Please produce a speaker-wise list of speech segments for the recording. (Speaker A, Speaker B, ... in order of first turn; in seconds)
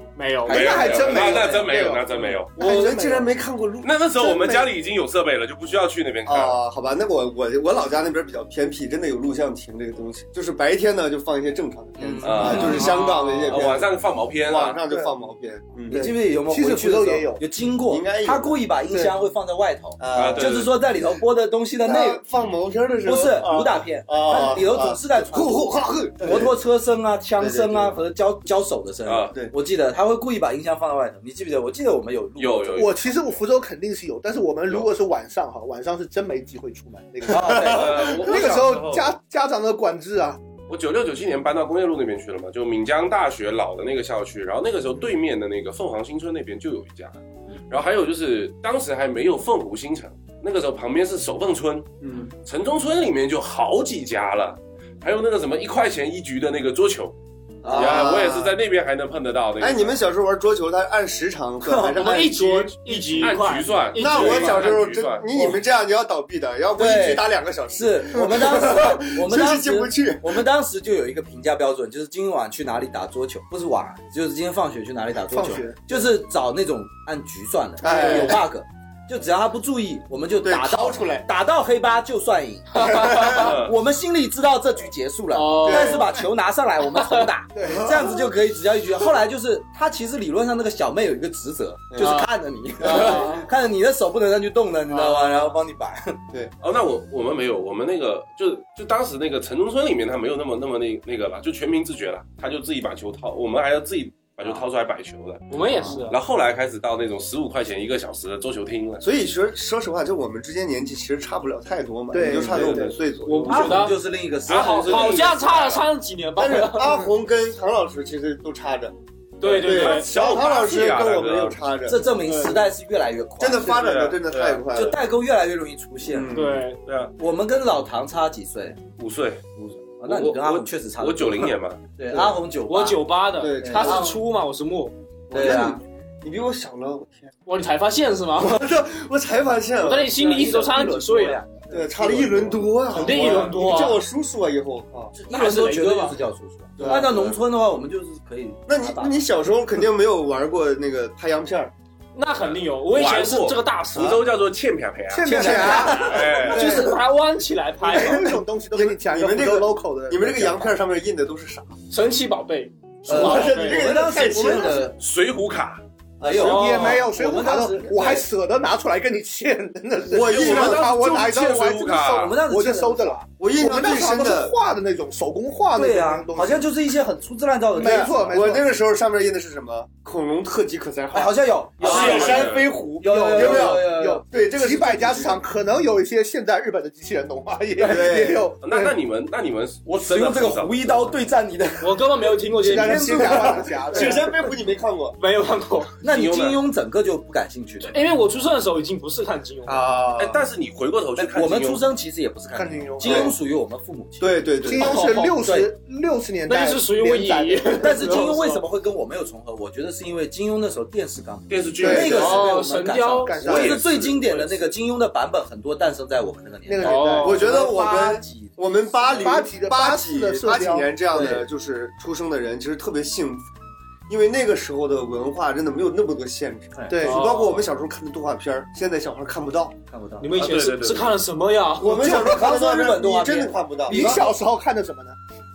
Speaker A: 0.1-1.2, 61.9-64.8, 82.8-83.5, 85.3-86.2, 87.0-87.3, 92.0-92.3, 92.8-93.5, 94.9-95.4, 105.5-106.2, 113.2-117.0, 119.4-120.1, 122.2-122.7, 126.3-126.8, 132.7-134.9, 137.4-138.6, 139.8-141.6, 142.9-144.0, 145.3-146.2, 152.1-154.2, 156.4-158.4, 161.9-163.9, 166.4-167.1, 191.8-194.2, 195.2-195.9, 197.8-199.9, 204.8-205.3, 206.5-208.6, 212.0-214.7, 216.8-217.5, 227.0-227.7, 230.2-232.1
Speaker B: 0.4-2.0, 2.5-3.3, 4.2-4.7, 16.4-17.4, 32.8-40.4, 75.3-75.8, 87.5-88.1, 112.1-112.9, 155.1-157.0, 157.8-160.7, 166.3-176.7, 177.7-178.7, 182.0-182.3, 183.0-188.9, 192.6-194.4, 202.5-203.3, 204.6-208.2, 211.8-212.4, 213.2-213.8, 216.7-217.4, 219.2-221.4, 226.9-227.3, 233.9-235.2
Speaker C: 0.5-2.5, 3.8-6.6, 12.2-14.8, 20.1-20.7, 29.1-29.3, 32.4-33.1, 37.6-39.1, 40.7-47.2, 47.7-51.9, 52.4-57.1, 57.7-60.0, 63.1-65.5, 83.3-83.7, 96.6-109.0, 114.5-115.8, 119.6-121.6, 123.7-124.6, 126.8-127.1, 129.0-129.4, 130.0-131.8, 152.4-156.9, 165.0-165.8, 170.2-172.3, 181.8-182.7, 188.6-190.9, 196.0-196.6, 200.2-201.8, 211.5-212.4, 230.3-231.2
Speaker D: 1.2-4.0, 6.2-16.1, 17.9-18.6, 20.0-20.7, 21.8-26.6, 27.4-28.0, 37.3-38.1, 52.0-52.3, 57.6-58.5, 59.6-63.2, 63.9-70.4, 77.8-78.4, 80.4-81.3, 82.8-83.5, 85.6-86.1, 87.6-88.2, 91.9-92.2, 92.8-93.3, 109.0-113.8, 116.3-122.1, 123.4-125.0, 126.0-126.7, 132.1-132.4, 133.3-134.2, 135.3-137.3, 138.4-140.7, 141.7-145.1, 146.8-147.4, 148.7-151.7, 155.3-155.9, 156.6-156.8, 157.9-161.7, 163.1-164.9, 166.2-166.8, 170.1-170.9, 173.4-174.5, 177.8-185.4, 187.8-188.5, 193.2-195.2, 199.6-200.4, 203.0-203.3, 204.2-205.1, 211.8-212.4, 213.4-213.8, 217.2-223.5, 224.1-229.8, 231.8-234.2
Speaker E: 12.0-13.1, 15.9-22.2, 23.0-32.9, 37.3-38.1, 57.6-58.1, 61.6-62.0, 66.8-96.2, 113.4-115.3, 121.9-123.8, 124.7-126.4, 127.2-128.8, 129.6-133.0, 133.6-134.2, 135.3-135.8, 140.2-143.5, 145.1-149.2, 155.2-156.4, 163.1-165.0, 166.2-168.2, 172.2-173.2, 175.7-178.5, 181.1-184.2, 189.8-192.0, 192.6-194.1, 196.0-198.1, 201.2-205.7, 207.7-219.4, 221.1-221.4, 226.7-227.2, 229.9-230.3, 231.8-234.3